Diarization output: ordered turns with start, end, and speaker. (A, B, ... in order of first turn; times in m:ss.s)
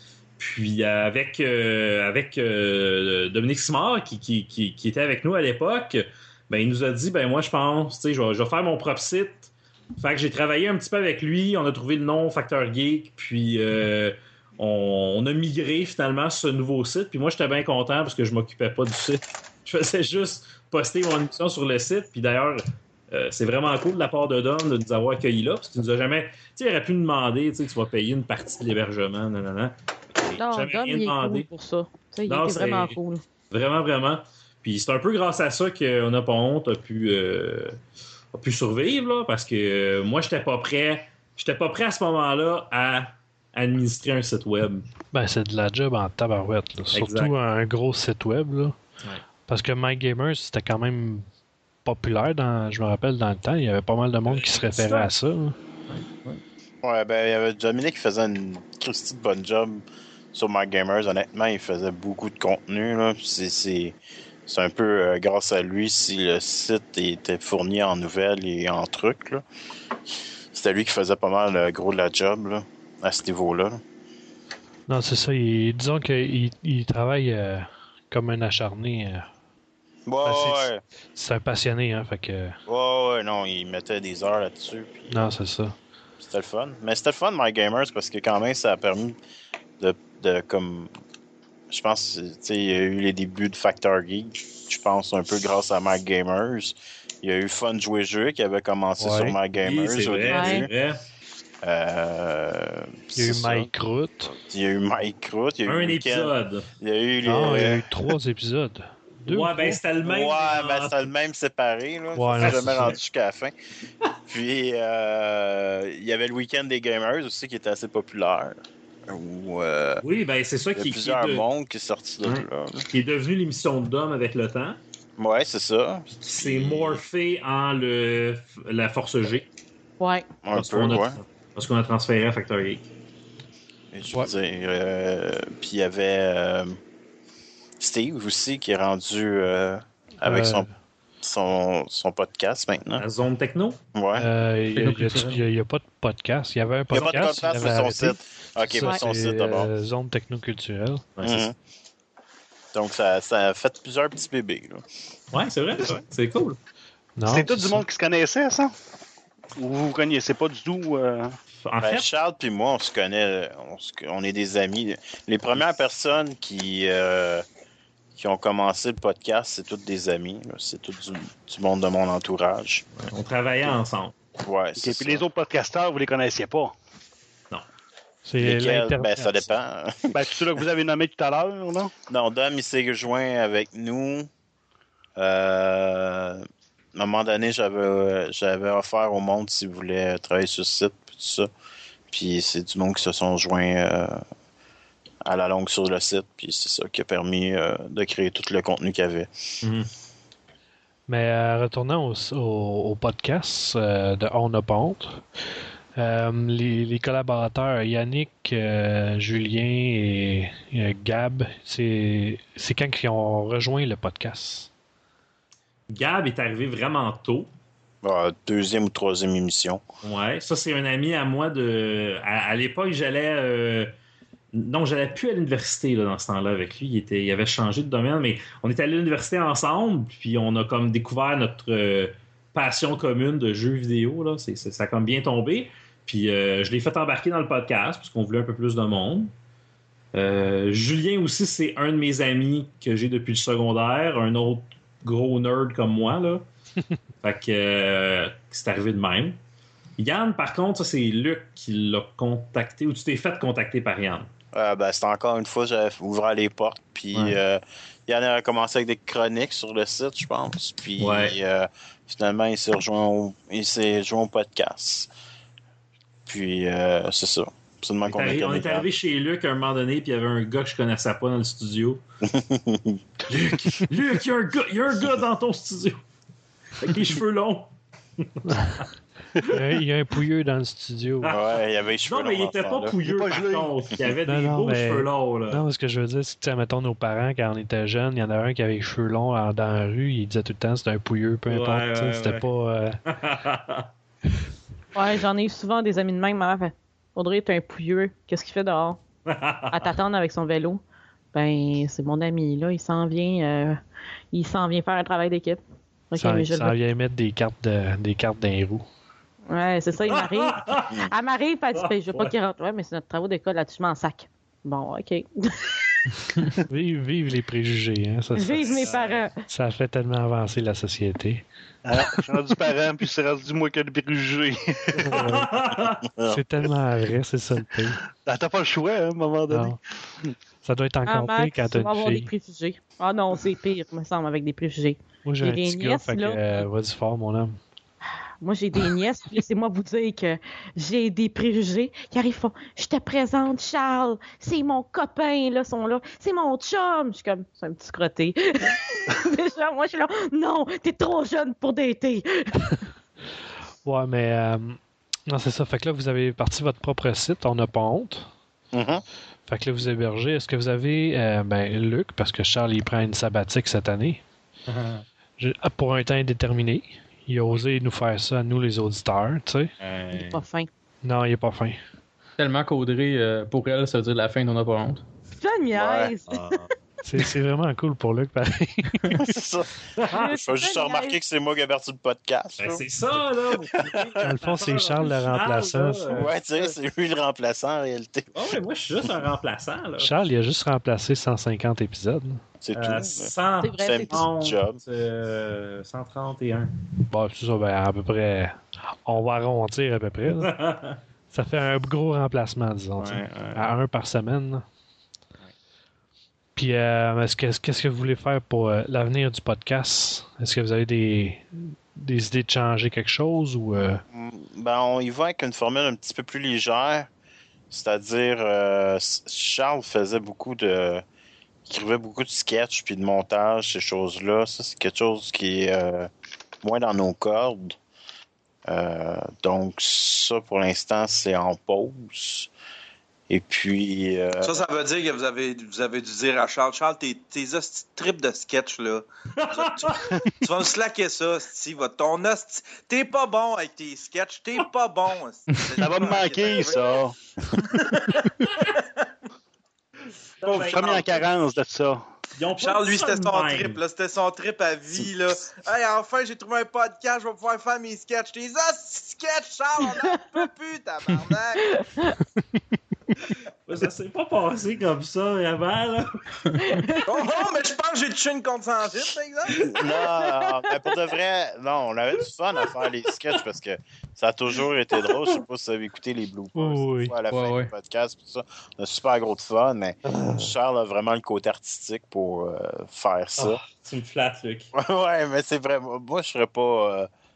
0:00.4-0:31.5 A
0:30.4-0:33.2 B
0:32.3-0:33.0 A
0:33.5-0:37.8 A
0:38.3-0:44.9 A
0:45.1-0:48.8 C
0:46.9-0:47.3 A
0:49.5-0:51.3 C
0:51.8-0:55.6 C
0:54.3-0:55.1 A
0:55.9-0:56.4 A
0:56.8-1:09.4 D
1:10.1-1:13.8 D
1:14.9-1:19.3 C
1:20.1-1:20.8 D
1:20.2-1:22.6 C
1:22.7-1:25.3 D
1:25.1-1:25.7 C
1:26.2-1:29.2 D
1:29.8-1:30.9 D
1:31.7-1:40.7 D
1:39.0-1:39.4 C
1:39.6-1:41.0 A
1:40.3-1:40.7 B
1:41.6-1:43.7 D
1:43.2-1:44.4 C
1:44.3-1:47.8 D
1:45.7-1:46.7 A
1:47.2-1:49.8 C
1:49.3-1:51.1 A
1:50.0-1:53.5 D
1:52.2-1:53.0 C
1:52.4-1:53.0 A
1:54.3-2:00.0 D
2:00.0-2:01.4 A
2:00.8-2:02.9 D
2:02.2-2:04.8 A
2:05.2-2:07.0 D
2:06.2-2:09.5 A
2:10.0-2:10.3 B
2:10.4-2:11.2 D
2:10.5-2:12.9 A
2:13.9-2:16.8 D
2:17.8-2:20.7 D
2:20.2-2:20.7 C
2:21.2-2:23.0 D
2:23.0-2:23.8 A
2:23.9-2:24.3 D
2:24.2-2:31.0 C
2:24.8-2:25.4 A
2:26.9-2:29.7 D
2:31.2-2:31.4 A
2:31.2-2:31.6 D
2:32.7-2:34.8 D
2:35.3-2:36.6 A
2:37.2-2:37.9 C
2:37.3-2:38.7 E
2:39.6-2:41.4 E
2:41.6-2:42.1 A
2:41.8-2:47.4 D
2:48.2-2:52.8 D
2:53.0-2:54.2 A
2:54.4-2:55.2 D
2:54.8-2:56.7 E
2:58.2-2:59.5 C
2:58.4-3:00.2 D
3:00.1-3:01.9 E
3:02.1-3:04.3 D
3:05.2-3:11.5 D
3:12.1-3:14.2 D
3:15.2-3:19.3 D
3:19.6-3:19.9 A
3:21.1-3:25.2 C
3:26.0-3:34.7 C
3:35.9-3:37.5 A
3:38.0-3:39.8 D
3:40.0-3:43.9 A
3:44.5-3:59.3 A
4:00.1-4:06.4 A
4:07.2-4:09.4 A
4:10.0-4:14.3 A
4:14.5-4:25.1 D
4:21.0-4:21.4 A
4:26.3-4:28.9 D
4:28.1-4:32.0 A
4:32.2-4:33.0 D
4:33.3-4:36.0 A
4:36.8-4:38.9 A
4:39.4-4:41.3 C
4:41.2-4:45.6 A
4:41.3-4:43.0 D
4:43.0-4:43.7 E
4:44.3-4:53.0 C
4:51.5-4:52.4 A
4:53.1-4:53.9 A
4:54.9-4:59.0 B
4:59.3-4:59.9 A
4:59.7-5:00.8 B
5:01.3-5:03.8 B
5:04.3-5:05.6 B
5:06.1-5:06.8 B
5:06.2-5:08.9 C
5:09.5-5:15.8 B
5:10.1-5:11.0 A
5:11.7-5:12.3 A
5:16.7-5:18.8 C
5:18.4-5:19.4 B
5:18.7-5:19.2 A
5:19.5-5:21.4 C
5:21.9-5:25.3 E
5:25.0-5:25.5 C
5:25.1-5:26.0 A
5:26.2-5:26.4 D
5:26.3-5:28.0 C
5:28.2-5:29.8 E
5:29.5-5:29.8 C
5:30.6-5:32.3 C
5:31.1-5:36.4 B
5:35.2-5:37.6 C
5:38.4-5:52.8 B
5:53.8-5:58.3 C
5:58.7-5:59.0 D
5:59.5-6:04.2 C
6:04.7-6:05.0 A
6:05.4-6:09.7 C
6:09.8-6:10.4 A
6:10.1-6:10.7 B
6:11.0-6:11.8 C
6:12.4-6:15.0 F
6:15.4-6:16.6 B
6:15.8-6:16.1 D
6:16.3-6:16.7 A
6:17.0-6:19.2 C
6:19.2-6:22.8 D
6:20.0-6:20.3 A
6:20.1-6:21.2 B
6:22.6-6:26.7 A
6:23.7-6:24.2 D
6:24.2-6:26.2 C
6:26.1-6:28.3 D
6:28.3-6:30.1 A
6:30.0-6:32.4 C
6:32.6-6:34.8 D
6:32.7-6:36.7 A
6:33.6-6:34.2 B
6:37.1-6:40.6 C
6:40.4-6:41.0 A
6:41.3-6:44.6 C
6:43.0-6:43.6 A
6:46.6-6:54.0 C
6:54.1-6:57.1 D
6:57.7-7:01.0 D
7:01.7-7:06.1 D
7:06.6-7:07.8 D
7:08.7-7:12.5 D
7:13.3-7:14.6 D
7:14.4-7:27.0 G
7:19.4-7:20.2 A
7:25.8-7:27.2 E
7:27.7-7:28.3 G
7:30.4-7:31.3 A
7:30.5-7:32.0 E
7:32.4-7:33.8 A
7:32.6-7:41.7 G
7:39.8-7:40.2 B
7:41.6-7:42.2 B
7:43.7-7:46.2 A
7:46.6-7:47.5 B
7:47.1-7:49.8 G
7:49.6-8:03.6 D
7:50.1-7:50.7 B
7:56.6-7:57.2 C
7:57.3-7:57.7 F
8:03.4-8:04.7 A
8:04.7-8:07.1 D